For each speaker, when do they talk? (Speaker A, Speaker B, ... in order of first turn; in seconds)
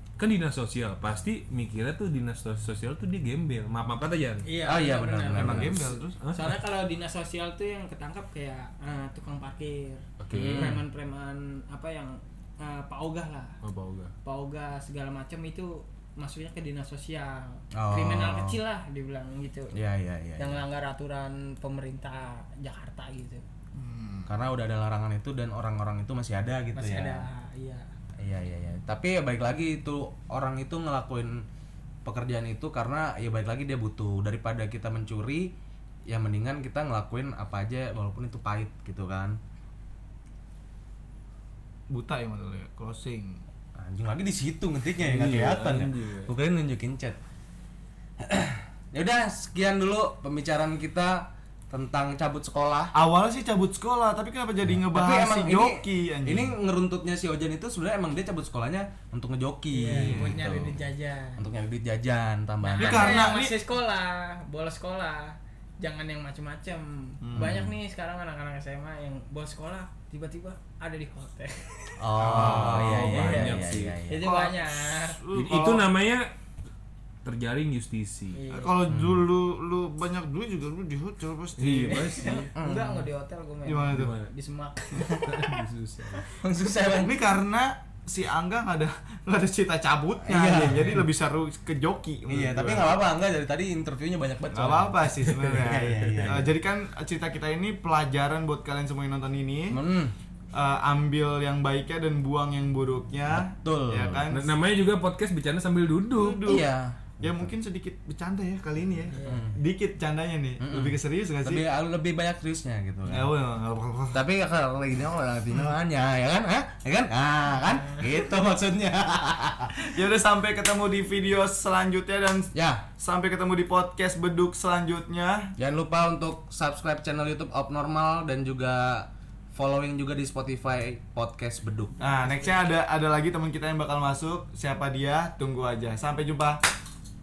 Speaker A: 0.2-4.5, 6.2-6.5, 10.2-10.8, 13.6-14.1, 45.0-46.3, 72.7-74.0, 75.3-76.3, 77.2-78.4, 81.6-82.5, 83.9-84.3, 85.1-86.2, 104.3-106.6
Speaker B: 4.5-13.6, 14.2-19.8, 20.4-23.4, 26.7-27.9, 59.7-61.4, 62.6-73.4, 74.1-75.2, 78.3-78.8, 81.9-85.5, 109.1-109.5, 117.7-118.0
Speaker C: 4.6-6.0, 10.3-10.8, 17.7-18.6, 19.7-20.6, 24.2-27.3, 28.2-31.4, 32.0-35.5, 36.1-39.4, 43.8-47.2, 48.2-52.9, 54.6-60.8, 61.4-63.2, 67.3-67.7, 72.0-74.2, 78.8-79.2, 82.5-83.1, 86.4-87.2, 90.2-91.0, 92.3-96.5, 99.7-100.1, 103.3-104.2, 106.4-107.5, 109.2-109.6, 110.6-113.3, 114.1-119.8, 122.5-122.8, 125.6-131.9
Speaker D: 5.3-6.2, 23.7-24.3, 41.9-43.4, 52.9-56.5, 59.9-60.3, 62.8-63.6, 67.2-67.6, 72.1-73.4, 74.2-75.9, 78.5-82.3, 83.6-84.1, 86.9-93.0, 94.5-99.8, 100.5-104.5, 106.2-106.7, 107.2-111.6, 113.1-114.2, 119.8-125.5, 132.0-136.6